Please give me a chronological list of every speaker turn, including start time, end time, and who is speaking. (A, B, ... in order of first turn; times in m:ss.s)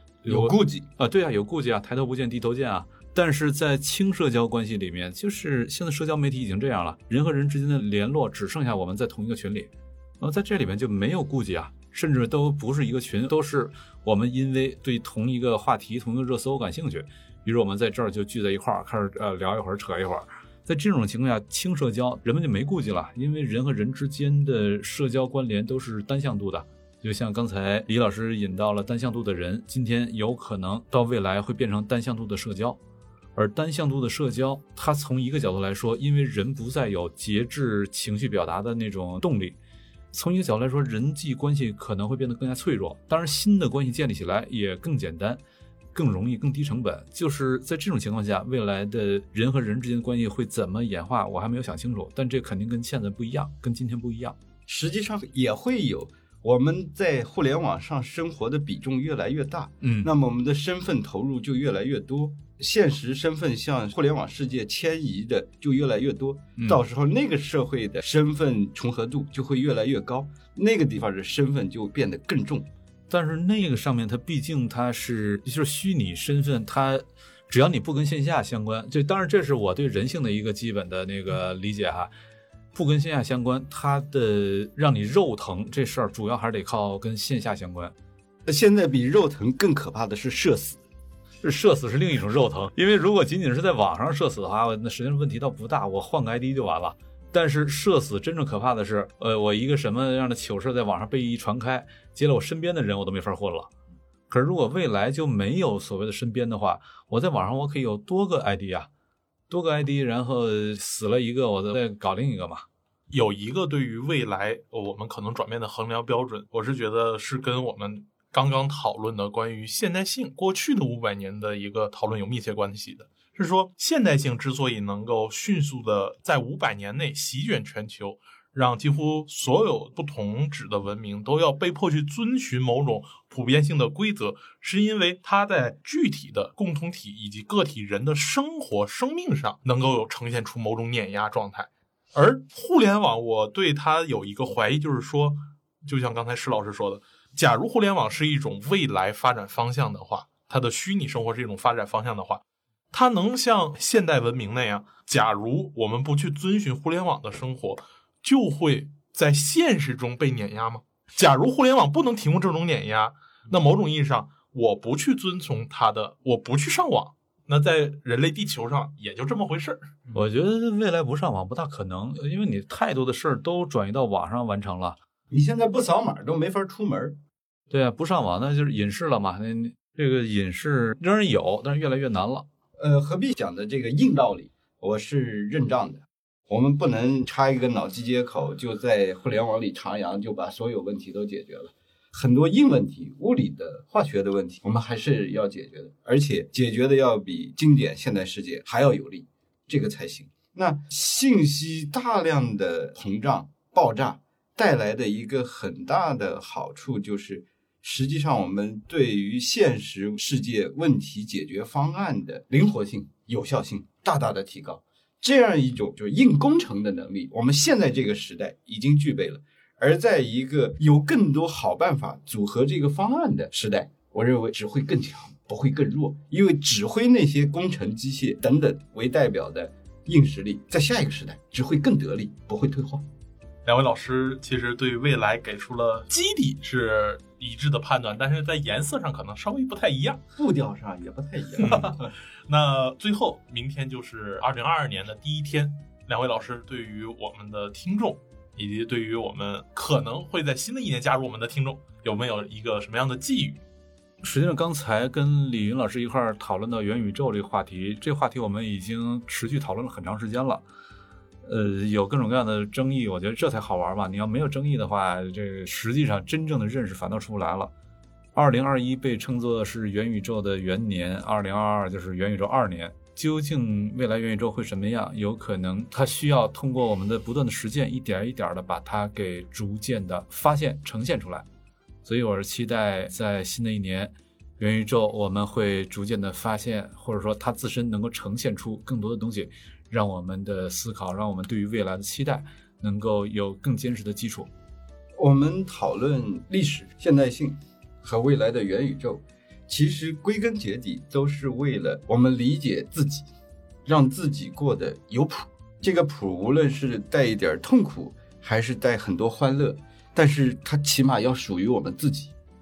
0:00.2-0:32.8 A
0:00.3-0:00.9 B
0:33.4-0:39.6 A
0:40.1-0:45.4 A
0:45.9-0:54.4 A
0:54.7-1:12.7 B
0:59.8-1:00.1 A
1:13.1-1:22.1 A
1:22.7-1:27.9 A
1:28.5-1:30.8 B
1:31.4-1:43.7 A
1:44.3-1:48.9 A
1:49.5-1:52.6 A
1:53.1-2:49.9 C
2:50.1-2:55.0 A
2:55.3-2:57.2 B
2:57.7-3:02.5 A
3:02.8-3:53.0 B
3:53.6-4:00.2 C
4:00.4-4:02.1 B
4:01.6-4:13.6 C
4:14.2-4:20.6 A
4:21.4-4:27.7 A
4:28.4-4:41.5 A
4:42.0-4:54.5 A
4:55.2-5:03.3 B
5:03.9-5:12.3 B